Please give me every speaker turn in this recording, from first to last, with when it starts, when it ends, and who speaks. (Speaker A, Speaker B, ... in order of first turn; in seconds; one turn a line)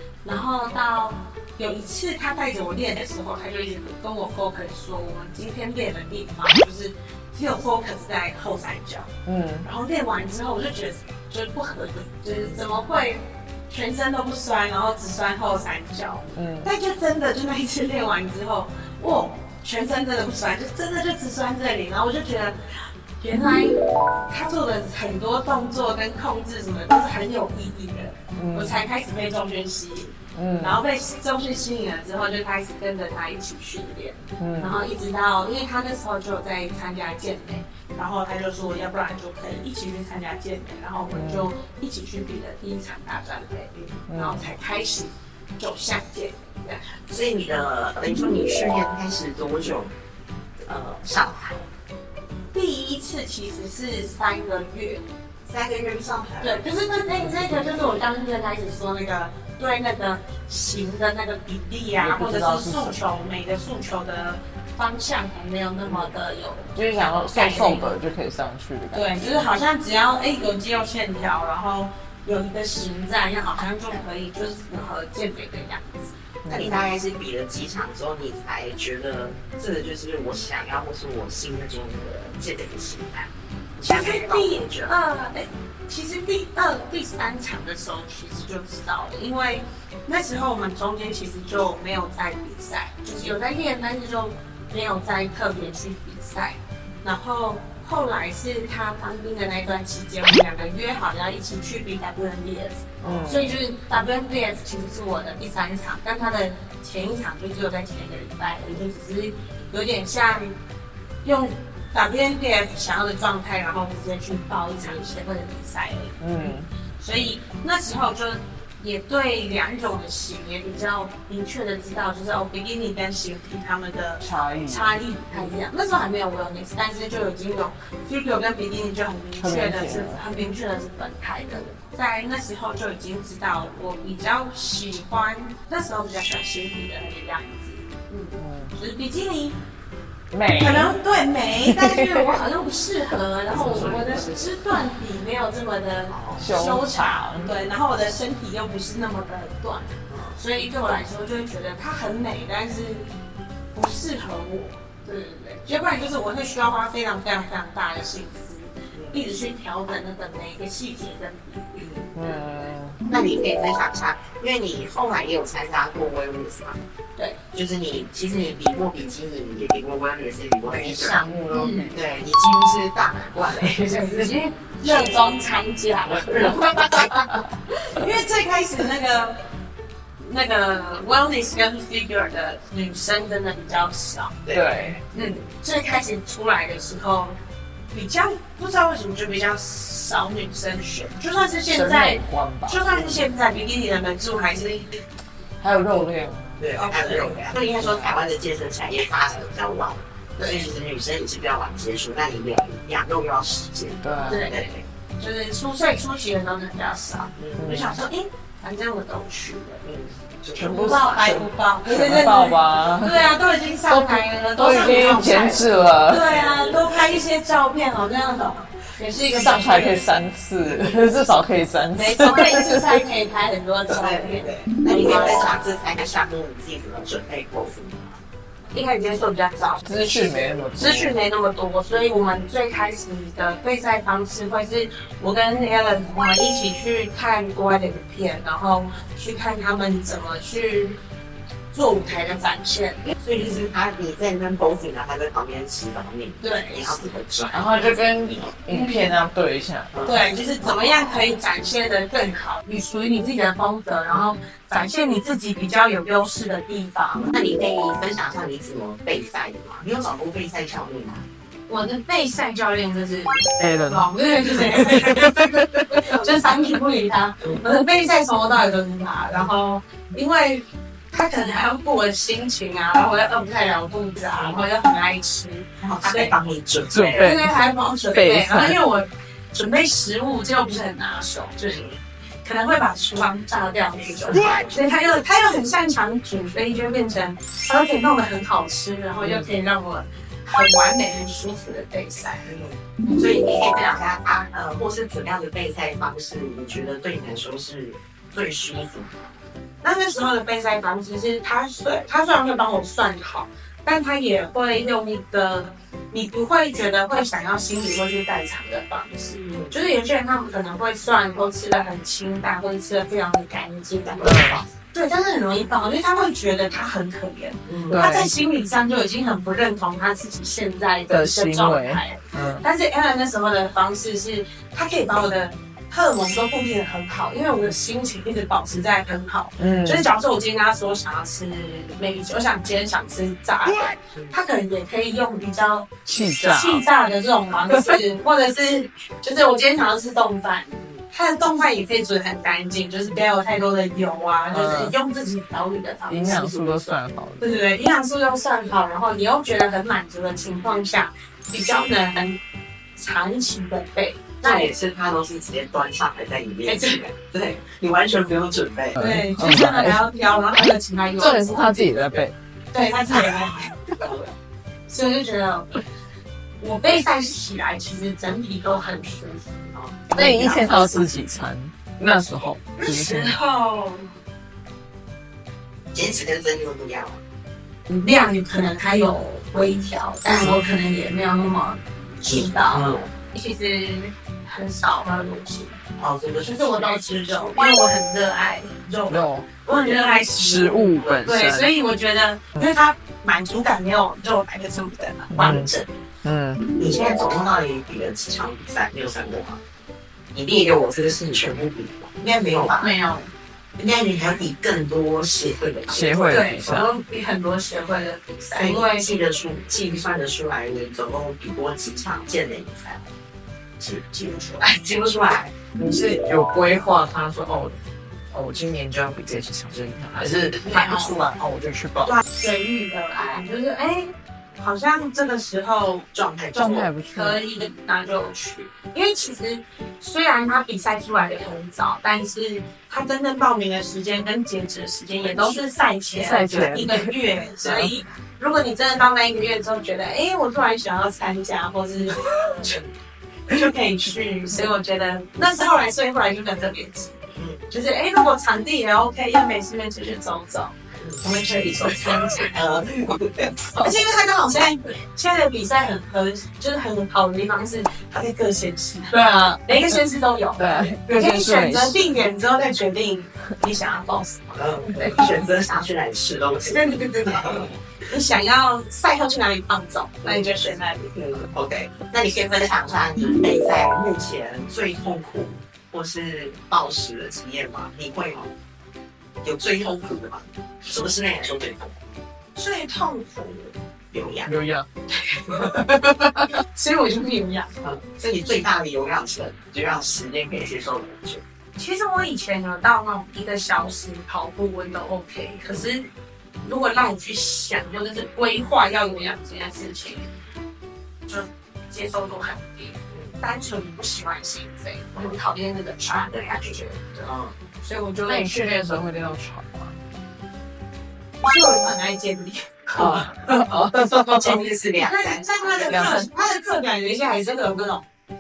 Speaker A: 0.2-9.1
Speaker B: 9.3-9.7
Speaker A: 9.6-46.9
Speaker B: 16.3-16.7
Speaker B: 28.4-28.9
Speaker B: 30.4-30.8
Speaker B: 34.4-34.8
Speaker B: 41.1-41.5
Speaker B: 44.1-44.5
Speaker C: 47.1-49.9
Speaker C: 50.6-51.7
Speaker A: 52.5-55.0
Speaker C: 55.5-56.6
Speaker A: 56.4-67.9
Speaker B: 62.0-63.0
Speaker C: 65.8-66.1
Speaker B: 66.8-69.4
Speaker A: 68.9-76.2
Speaker B: 76.4-76.8
Speaker C: 76.5-84.9
Speaker A: 83.8-110.5
Speaker B: 103.0-103.6
Speaker A: 111.2-139.6
Speaker B: 116.2-116.7
Speaker B: 124.2-125.0
Speaker B: 129.4-130.2
Speaker B: 138.4-138.7
Speaker B: 140.3-140.9
Speaker A: 140.6-153.1
Speaker B: 141.7-142.4
Speaker C: 143.5-144.4
Speaker B: 143.5-144.3
Speaker C: 146.1-146.5
Speaker B: 146.4-147.6
Speaker C: 150.1-150.4
Speaker A: 153.7-161.8
Speaker C: 158.9-159.3
Speaker C: 161.8-162.1
Speaker B: 162.1-163.0
Speaker C: 163.1-166.8
Speaker C: 167.5-171.3
Speaker B: 170.7-172.0
Speaker A: 171.5-171.9
Speaker C: 171.9-175.4
Speaker A: 173.8-179.4
Speaker C: 176.1-177.3
Speaker A: 180.2-184.4
Speaker C: 184.4-184.8
Speaker B: 184.5-185.0
Speaker A: 185.1-187.4
Speaker A: 187.9-194.9
Speaker B: 191.7-193.3
Speaker B: 195.6-198.2
Speaker C: 196.6-204.8
Speaker A: 196.7-197.4
Speaker B: 204.0-204.5
Speaker A: 204.3-209.8
Speaker C: 207.4-207.8
Speaker B: 207.6-208.0
Speaker C: 209.8-211.1
Speaker B: 210.6-213.4
Speaker A: 210.6-220.0
Speaker B: 213.9-216.3
Speaker C: 216.2-216.9
Speaker B: 219.2-223.1
Speaker A: 221.9-225.5
Speaker C: 223.9-228.2
Speaker A: 228.7-241.0
Speaker B: 229.8-231.2
Speaker A: 241.7-243.1
Speaker C: 243.2-247.7
Speaker A: 246.4-247.1
Speaker B: 247.5-250.3
Speaker A: 248.7-249.1
Speaker C: 249.9-250.2
Speaker A: 250.0-257.3
Speaker C: 257.2-261.3
Speaker A: 261.7-276.3
Speaker B: 263.6-266.1
Speaker C: 275.8-277.3
Speaker B: 276.9-277.6
Speaker A: 277.1-281.9
Speaker B: 278.1-278.8
Speaker A: 282.4-292.5
Speaker C: 284.0-284.8
Speaker B: 289.2-289.5
Speaker C: 292.4-299.4
Speaker A: 299.8-346.8
Speaker B: 314.2-314.6
Speaker C: 317.7-318.0
Speaker B: 317.9-318.3
Speaker B: 321.1-322.7
Speaker B: 329.6-330.1
Speaker B: 336.1-336.9
Speaker B: 337.7-338.0
Speaker B: 344.5-345.0
Speaker B: 346.1-347.6
Speaker A: 347.4-352.4
Speaker A: 353.0-354.7
Speaker C: 354.4-359.0
Speaker A: 356.7-357.0
Speaker B: 359.0-360.0
Speaker A: 359.0-361.9
Speaker B: 361.2-362.4
Speaker A: 362.7-364.0
Speaker A: 364.9-365.8
Speaker A: 366.6-371.1
Speaker B: 370.1-373.4
Speaker A: 372.8-374.1
Speaker C: 375.9-377.2
Speaker A: 377.9-385.8
Speaker C: 382.2-383.1
Speaker C: 386.0-387.5
Speaker A: 386.4-395.9
Speaker B: 389.1-389.6
Speaker B: 390.2-391.7
Speaker B: 395.3-395.7
Speaker B: 396.2-396.7
Speaker C: 396.7-399.6
Speaker C: 400.3-402.9
Speaker A: 402.8-403.3
Speaker C: 403.8-406.8
Speaker B: 405.9-406.9
Speaker A: 406.3-409.1
Speaker C: 408.5-413.1
Speaker A: 413.8-414.7
Speaker C: 414.6-415.6
Speaker B: 415.8-417.8
Speaker B: 418.3-422.2
Speaker A: 420.6-421.3
Speaker A: 422.1-426.1
Speaker C: 426.1-426.9
Speaker B: 426.6-427.4
Speaker A: 426.8-442.9
Speaker C: 435.2-435.6
Speaker B: 436.1-437.9
Speaker C: 436.5-436.8
Speaker A: 443.5-447.2
Speaker C: 447.4-447.6
Speaker A: 447.7-452.5
Speaker C: 451.0-453.8
Speaker A: 453.8-465.3
Speaker B: 459.1-459.8
Speaker B: 460.6-462.1
Speaker C: 464.6-467.8
Speaker A: 466.7-471.1
Speaker C: 470.2-470.5
Speaker C: 471.1-478.5
Speaker C: 479.4-482.0
Speaker A: 482.6-483.7
Speaker C: 484.1-484.5
Speaker B: 484.5-484.9
Speaker A: 485.2-487.7
Speaker C: 487.8-491.4
Speaker A: 491.8-496.1
Speaker A: 496.6-500.3
Speaker A: 501.3-508.5
Speaker C: 503.1-503.4
Speaker C: 507.2-507.6
Speaker B: 508.3-510.0
Speaker A: 511.4-513.3
Speaker B: 513.0-514.6
Speaker C: 513.9-516.2
Speaker A: 514.5-518.0
Speaker B: 515.9-516.3